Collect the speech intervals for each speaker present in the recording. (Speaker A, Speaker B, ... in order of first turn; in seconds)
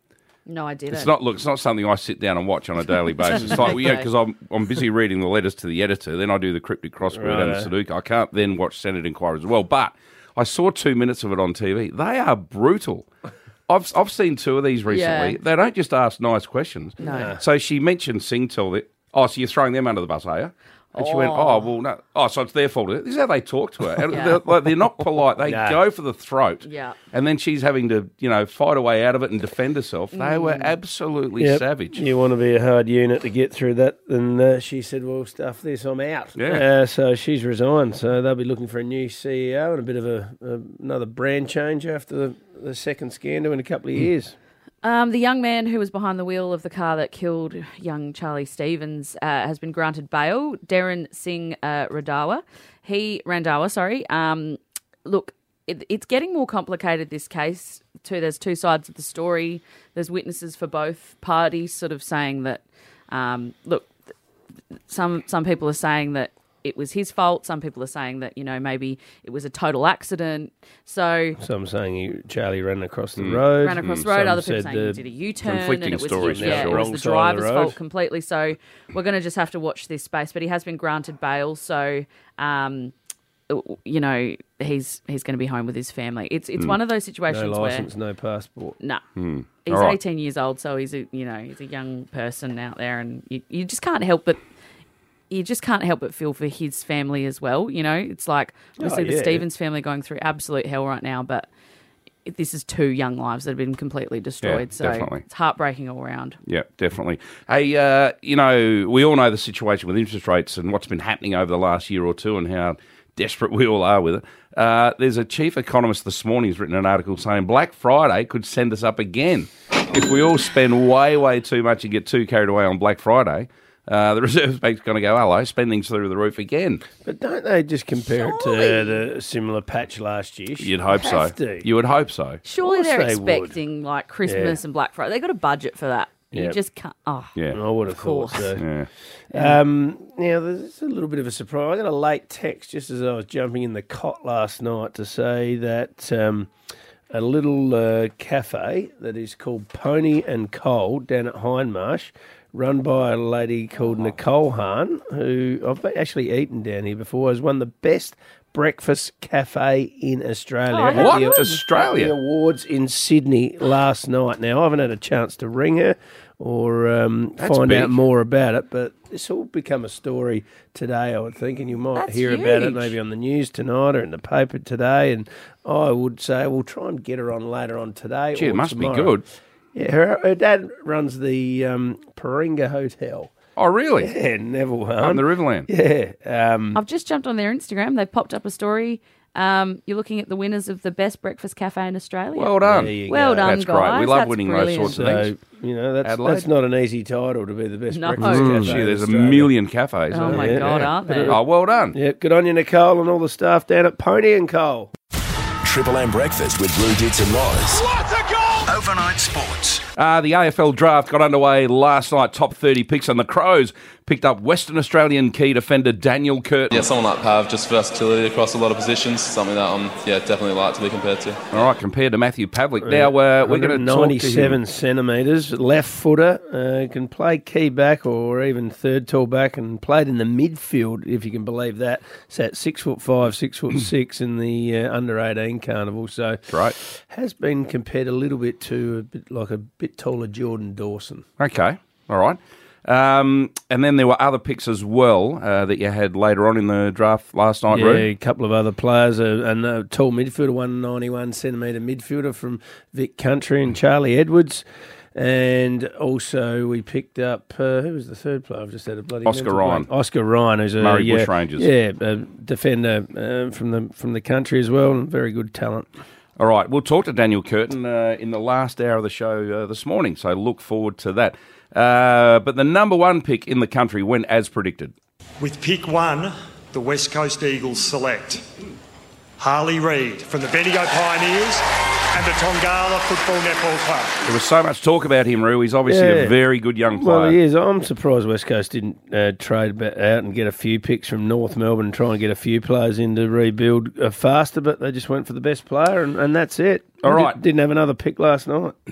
Speaker A: 0.5-1.1, 3.2-4.1, 14.9-15.4, 17.0-17.3, 21.0-21.7, 24.1-24.5, 26.6-27.0, 30.1-30.8, 44.8-63.9, 64.9-71.4, 73.6-82.9, 83.5-87.9, 89.6-94.4, 95.3-101.5, 102.2-106.4, 128.1-129.0, 132.4-138.5, 139.3-139.6, 160.7-161.6, 171.9-173.0, 186.7-195.0, 197.9-198.8, 200.1-201.4
Speaker B: 0.9-13.1, 13.7-32.0, 36.4-36.6, 73.2-74.1, 75.4-76.9, 89.2-90.0, 104.4-105.2, 106.4-126.8, 130.6-132.4, 138.4-138.9, 160.9-162.2, 167.4-168.0, 178.3-179.2, 183.6-184.1, 185.0-185.7, 192.3-195.3, 196.0-196.5, 198.3-202.0, 210.0-216.7, 221.5-224.6, 236.5-236.8, 241.4-248.1, 259.2-259.9, 260.8-261.7, 266.4-274.9, 284.2-287.4, 297.0-297.4
Speaker C: 7.1-7.7, 17.1-17.4, 25.4-25.8, 31.4-44.3, 71.4-75.0, 76.2-77.8, 87.3-88.8, 98.8-99.5, 127.0-131.7, 132.6-133.6, 134.2-134.6, 137.5-138.7, 139.3-146.5, 147.1-179.2, 179.7-183.3, 184.0-186.8, 192.6-193.6, 194.8-199.6, 200.2-201.4, 201.9-204.9, 222.8-241.2, 247.7-254.6, 255.1-265.9, 285.9-286.4, 286.9-298.7
Speaker D: 205.6-207.8, 208.7-209.8
Speaker E: 216.7-221.4
Speaker F: 275.4-278.4, 279.4-281.6, 282.1-284.1